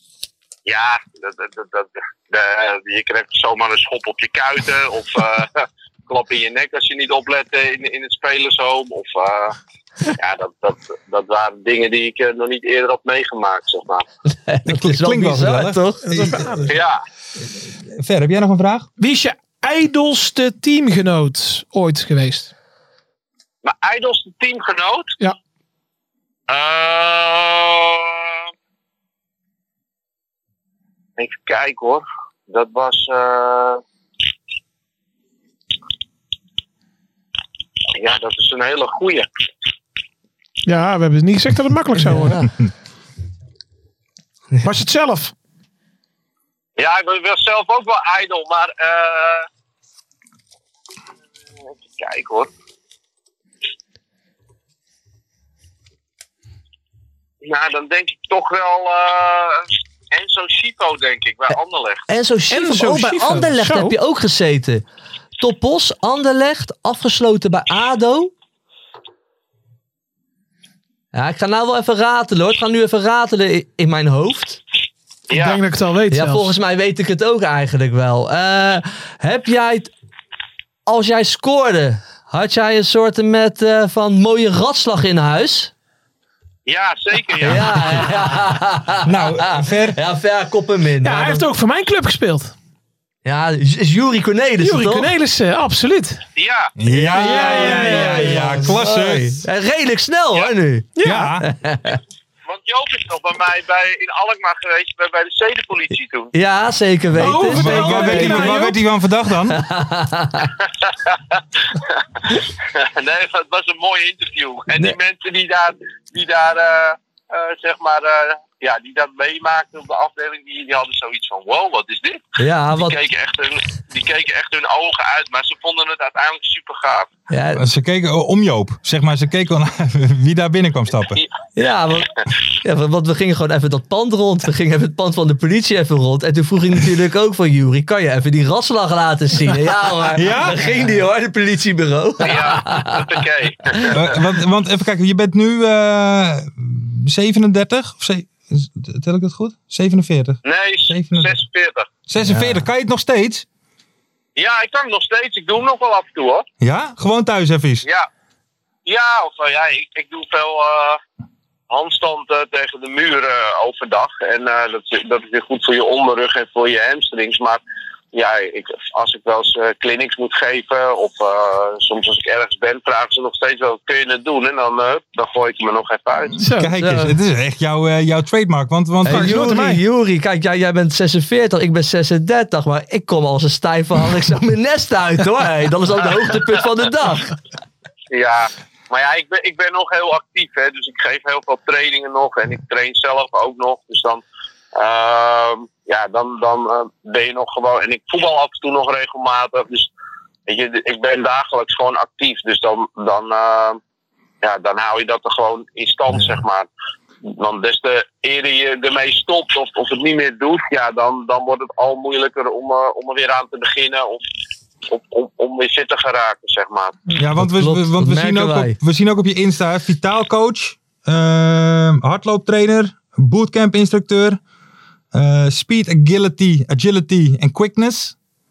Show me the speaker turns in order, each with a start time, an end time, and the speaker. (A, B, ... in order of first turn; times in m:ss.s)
0:00.6-0:09.6 A
0:10.1-0:14.0 A
0:14.3-0:16.1 B
0:14.6-0:16.6 C
0:16.0-0:16.8 D
0:16.7-0:17.0 A
0:17.8-0:18.9 C
0:19.0-0:22.5 D
0:23.6-0:25.1 A
0:26.5-0:28.3 A
0:31.2-0:33.8 A
0:37.9-0:39.3 A
0:40.6-0:42.4 D
0:42.0-0:42.5 B
0:44.6-0:45.3 D
0:46.8-0:49.5 A
0:51.8-0:52.5 A
0:57.4-1:02.0 A
1:02.1-1:04.8 B
1:02.5-1:04.0 D
1:05.4-1:08.3 B
1:11.1-1:14.6 B
1:15.3-1:15.6 A
1:15.3-1:16.5 D
1:16.1-1:19.9 B
1:20.9-1:25.7 B
1:26.7-1:28.1 A
1:27.4-1:31.4 B
1:29.0-1:30.0 C
1:31.0-1:32.5 D
1:33.2-1:35.1 B
1:34.6-1:36.2 D
1:36.4-1:36.7 A
1:36.8-1:39.4 C
1:36.9-1:42.0 B
1:37.1-1:38.5 D
1:41.0-1:41.4 D
1:41.0-1:41.4 C
1:42.5-1:46.3 A
1:46.3-1:48.6 B
1:47.2-1:48.8 D
1:47.2-1:49.6 C
1:49.5-1:50.5 B
1:52.3-2:07.1 A
2:02.4-2:03.0 B
2:07.3-2:07.6 B
2:07.6-2:11.2 C
2:11.6-2:23.0 B
2:20.1-2:20.6 C
2:22.2-2:24.2 A
2:23.9-2:31.3 C
2:30.4-2:31.9 A
2:32.1-2:33.4 C
2:32.2-2:32.6 B
2:34.4-2:36.4 A
2:36.6-2:37.8 C
2:38.9-2:41.0 A
2:41.7-2:47.6 A
2:48.1-2:56.4 A
2:56.4-2:56.7 D
2:56.5-2:59.4 C
2:56.8-2:57.1 B
2:59.0-2:59.8 D
2:59.0-3:07.3 B
3:08.1-3:14.2 A
3:14.7-3:19.9 A
3:20.5-3:23.8 A
3:24.4-3:26.7 A
3:27.3-3:34.2 A
3:34.9-3:37.0 A
3:37.2-3:44.4 C
3:37.4-3:38.8 B
3:45.1-3:48.1 C